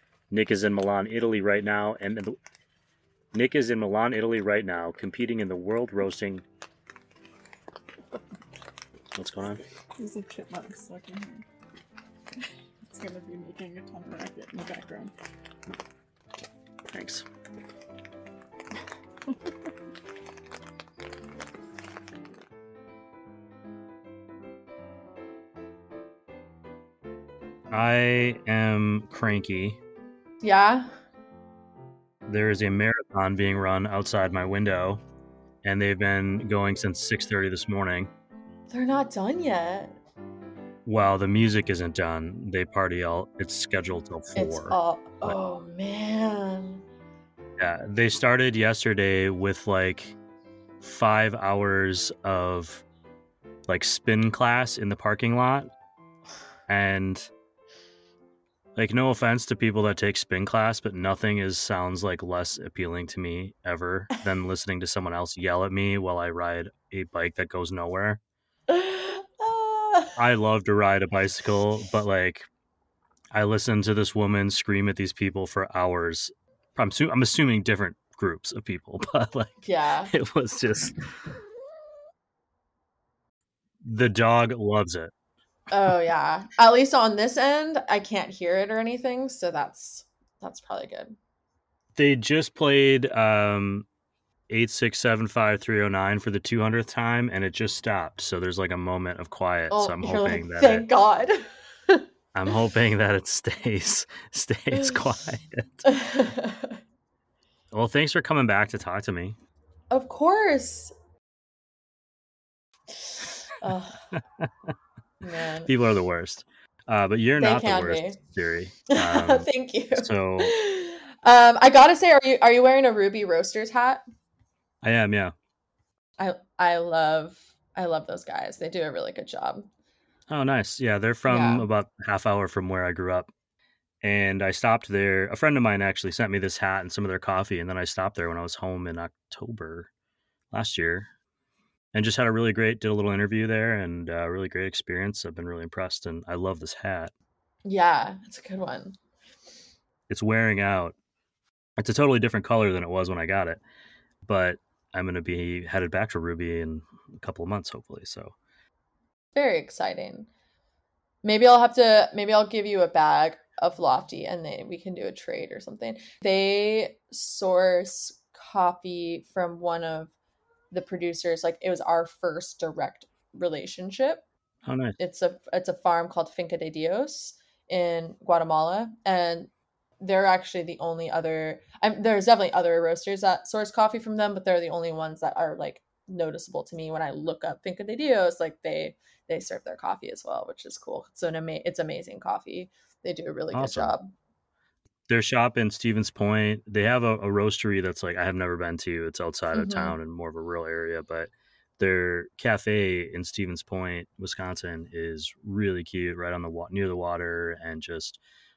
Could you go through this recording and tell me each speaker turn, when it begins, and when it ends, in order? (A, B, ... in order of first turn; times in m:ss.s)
0:00.3-0:02.3 A
0:03.3-0:06.4 A
0:09.1-0:09.6 A
0:10.0-0:11.4 B
0:12.9-0:15.1 B
0:16.9-0:17.2 A
0:27.7-0:29.8 A
0:30.4-0:30.9 C
0:32.3-0:35.0 A
0:35.6-0:38.1 A
0:38.7-0:40.0 C
0:40.8-0:45.4 A
0:44.3-0:46.8 C
0:47.6-0:50.1 A
0:50.8-0:52.8 A
0:53.7-0:55.7 A
0:56.7-0:57.3 A
0:58.8-1:08.2 A
1:08.7-1:10.1 C
1:10.2-1:12.5 A
1:13.3-1:21.0 A
1:19.6-1:20.1 C
1:23.8-1:25.1 A
1:25.7-1:31.2 C
1:32.0-1:33.9 A
1:34.5-1:40.9 A
1:39.7-1:42.0 C
1:42.3-1:45.9 A
1:44.7-1:45.0 C
1:45.8-1:46.8 C
1:47.7-1:49.4 A
1:49.9-1:50.9 C
1:53.0-1:54.0 C
1:54.1-1:54.7 A
1:55.2-1:55.7 C
1:55.6-2:00.5 A
1:57.4-1:58.2 C
1:58.9-2:04.0 C
2:04.8-2:05.3 A
2:06.2-2:09.7 C
2:10.3-2:13.3 A
2:11.3-2:11.7 C
2:14.0-2:19.9 A
2:20.5-2:21.1 A
2:21.9-2:27.1 A
2:27.6-2:29.0 C
2:30.1-2:30.9 A
2:31.8-2:33.6 A
2:34.2-2:38.3 A
2:39.3-2:40.3 C
2:41.2-2:50.1 C
2:50.7-2:54.2 C
2:54.6-2:55.0 A
2:55.0-3:14.1 C
3:13.5-3:13.9 A
3:15.1-3:28.2 A
3:19.5-3:20.0 C